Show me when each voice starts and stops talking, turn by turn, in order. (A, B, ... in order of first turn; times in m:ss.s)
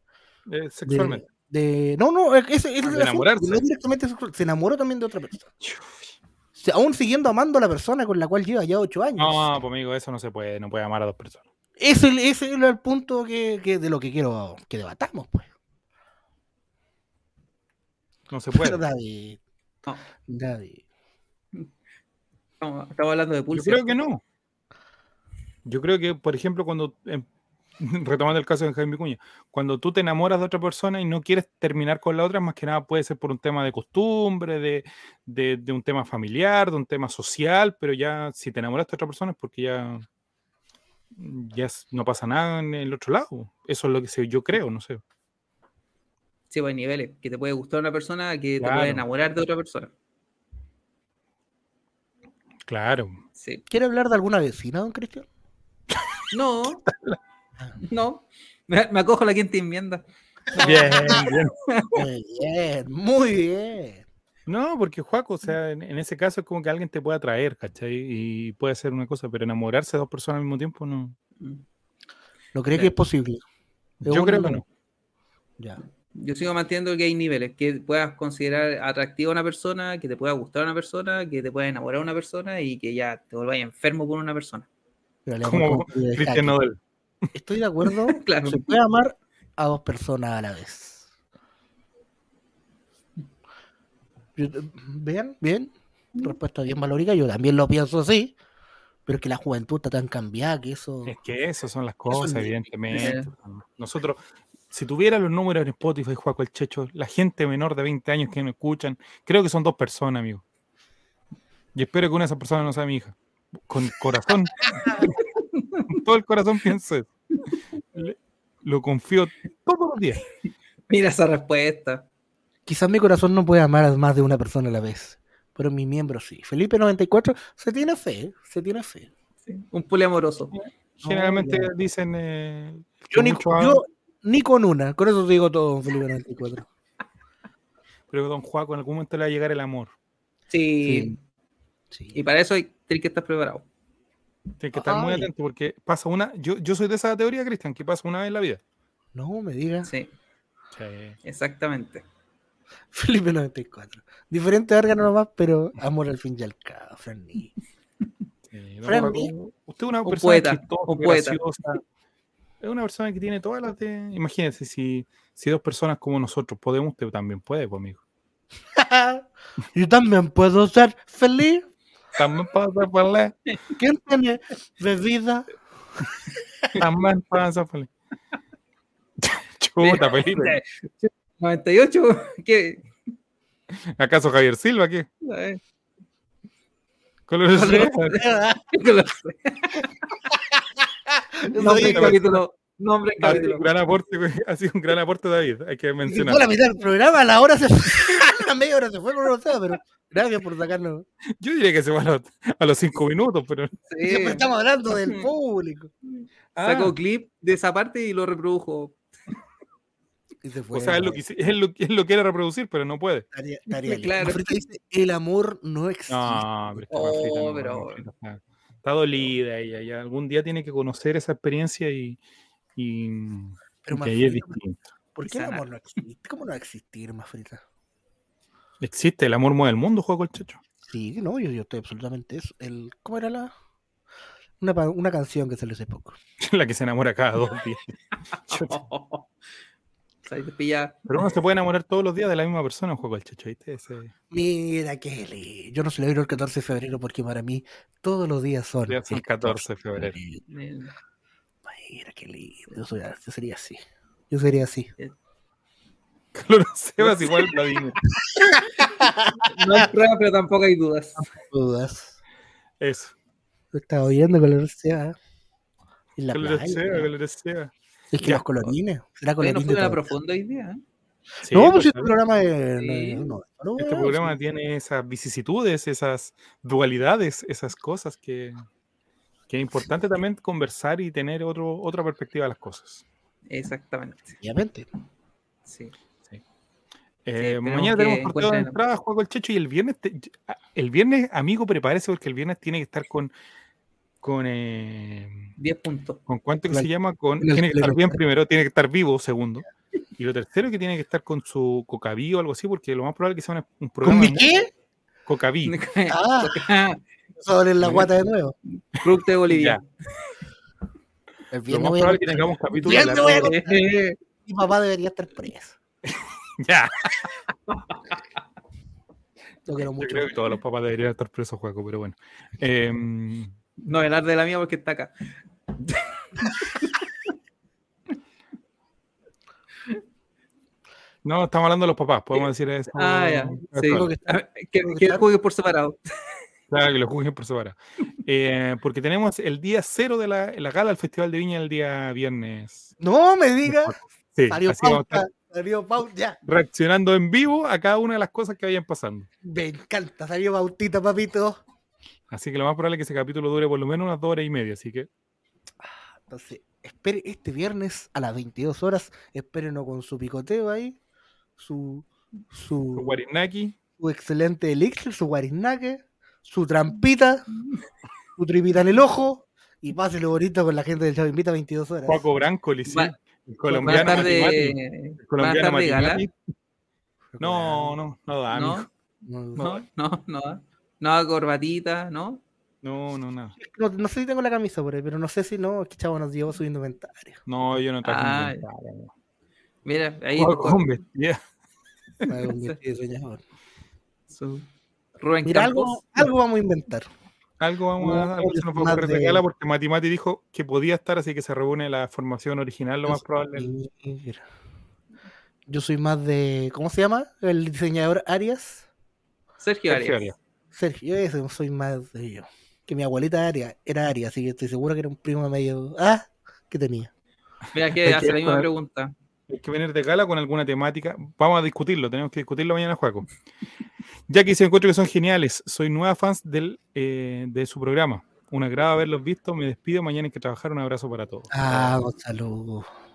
0:00.5-0:01.2 A
0:00.8-0:05.5 B
0:02.8-0:03.6 A
0:05.6-0:05.9 A
0:06.6-0:09.5 B
0:09.2-0:11.4 A
0:11.8-0:15.5 B
0:18.3-0:18.8 A
0:18.5-0:19.4 B
0:20.3-0:20.8 B
0:22.6-0:23.9 C
0:23.5-0:24.2 A
0:25.7-0:27.3 A
0:27.8-0:40.0 A
0:41.2-0:45.0 A
0:46.5-0:49.9 C
0:48.6-0:49.0 A
0:52.7-0:53.2 A
0:53.4-0:53.6 C
0:53.7-0:55.3 B
0:56.3-0:56.8 C
0:56.8-0:57.2 A
0:57.9-1:00.0 C
1:00.6-1:01.9 C
1:00.6-1:01.5 A
1:00.6-1:01.3 B
1:01.9-1:04.0 B
1:04.5-1:11.2 A
1:12.6-1:13.4 B
1:14.0-1:14.6 A
1:14.0-1:14.6 B
1:16.1-1:24.7 C
1:25.3-1:26.6 B
1:25.4-1:26.8 A
1:27.3-1:31.1 B
1:28.1-1:28.7 C
1:34.4-1:38.4 B
1:39.1-1:41.2 B
1:41.0-1:50.4 A
1:42.1-1:42.5 B
1:42.9-1:43.3 C
1:51.8-1:53.2 A
1:53.7-1:55.2 A
1:55.6-1:55.8 C
1:55.9-1:57.1 A
1:58.0-2:00.2 A
2:00.9-2:02.0 C
2:02.7-2:09.1 B
2:09.5-2:10.5 C
2:10.5-2:13.8 A
2:11.0-2:11.7 B
2:13.1-2:16.7 B
2:18.1-2:19.9 A
2:20.5-2:21.2 C
2:20.8-2:21.2 B
2:21.9-2:22.2 B
2:22.1-2:23.6 C
2:24.6-2:28.6 A
2:24.9-2:25.3 B
2:29.1-2:29.9 B
2:29.8-2:30.1 C
2:30.8-2:31.2 A
2:31.2-2:32.0 C
2:32.9-2:37.5 B
2:38.5-2:41.8 A
2:38.8-2:39.3 B
2:40.1-2:41.4 C
2:42.6-2:48.0 A
2:48.8-2:51.7 B
2:52.2-2:53.4 A
2:53.8-2:55.5 B
2:56.8-2:57.9 A
2:59.2-3:00.6 A
2:59.8-3:02.8 C
3:04.0-3:05.1 A
3:05.2-3:05.6 C
3:07.3-3:08.2 A
3:07.5-3:08.6 B
3:08.7-3:09.8 C
3:11.4-3:12.2 B
3:11.6-3:13.7 C
3:11.6-3:12.4 A
3:13.2-3:16.4 A
3:16.0-3:21.0 B
3:21.4-3:23.7 A
3:23.9-3:24.4 C
3:24.0-3:25.9 B
3:26.6-3:26.9 A
3:26.6-3:29.0 C
3:30.4-3:31.2 B
3:30.7-3:33.3 A
3:33.3-3:36.8 B
3:33.7-3:34.5 C
3:36.1-3:42.2 A
3:36.9-3:38.0 C
3:42.8-3:44.9 A
3:43.8-3:44.6 B
3:45.2-3:47.6 B
3:48.8-3:50.6 A
3:50.8-3:53.5 B
3:54.6-3:56.2 B
3:56.4-3:57.9 A
3:58.5-3:59.3 C
3:58.5-3:58.8 A
4:00.3-4:01.0 C
4:01.1-4:04.1 A
4:04.3-4:10.4 B
4:08.9-4:10.2 A
4:10.5-4:10.9 C
4:11.6-4:14.9 B
4:16.4-4:18.0 A
4:18.8-4:19.9 B
4:19.5-4:21.2 C
4:21.2-4:22.2 B
4:22.8-4:23.1 A
4:23.7-4:25.2 B
4:26.2-4:27.1 B
4:26.3-4:27.7 A
4:28.1-4:30.1 B
4:29.4-4:30.8 C
4:31.4-4:32.1 A
4:31.5-4:34.4 B
4:32.8-4:33.3 C
4:33.8-4:38.6 A
4:39.5-4:43.0 A
4:43.5-4:44.4 C
4:44.4-4:44.9 B
4:45.7-4:45.9 C
4:47.2-4:53.3 A
4:47.4-4:48.8 C
4:54.2-4:55.5 A
4:55.6-4:56.2 C
4:56.3-4:59.7 A
4:57.4-4:58.2 B
5:00.2-5:04.5 A
5:04.0-5:04.7 B
5:05.3-5:05.8 A
5:05.7-5:07.0 C
5:06.1-5:06.7 B
5:07.4-5:08.6 B
5:07.8-5:08.1 A
5:08.7-5:09.8 C
5:09.5-5:09.8 A
5:11.5-5:13.8 B
5:11.7-5:13.6 A
5:12.9-5:14.2 C
5:14.4-5:15.8 B
5:16.1-5:17.3 A
5:17.7-5:18.2 C
5:19.7-5:20.3 B
5:20.0-5:23.5 A
5:23.8-5:25.1 C
5:26.6-5:26.9 C
5:31.2-5:34.1 A
5:32.3-5:36.0 C
5:33.9-5:35.2 B
5:36.7-5:42.9 A
5:43.0-5:44.0 B
5:43.7-5:45.2 A
5:44.5-5:46.4 B
5:46.5-5:49.3 A
5:49.4-5:51.6 B
5:52.3-5:55.1 A
5:55.8-6:01.0 B
6:01.6-6:03.2 B
6:02.9-6:03.7 A
6:04.0-6:07.5 B
6:08.4-6:12.2 B
6:12.1-6:16.3 A
6:12.9-6:13.1 C
6:13.7-6:16.2 C
6:13.8-6:14.4 B
6:17.3-6:18.0 B
6:17.4-6:18.9 A
6:18.5-6:18.9 C
6:19.2-6:19.8 B
6:19.6-6:22.4 C
6:22.8-6:23.6 A
6:23.6-6:27.4 B
6:27.5-6:29.1 A
6:28.0-6:28.6 C
6:29.8-6:30.8 C
6:30.4-6:31.4 A
6:32.3-6:33.4 B
6:34.3-6:34.7 C
6:35.2-6:36.0 C
6:35.4-6:37.1 B
6:37.6-6:43.7 A
6:38.0-6:39.4 B
6:43.1-6:44.4 B
6:45.7-6:48.9 B
6:49.6-6:50.2 C
6:49.9-6:50.4 A
6:50.7-6:57.1 B
6:57.7-6:59.1 C
6:58.0-6:58.7 A
6:59.5-7:03.3 A
7:04.3-7:12.0 A
7:11.5-7:12.9 B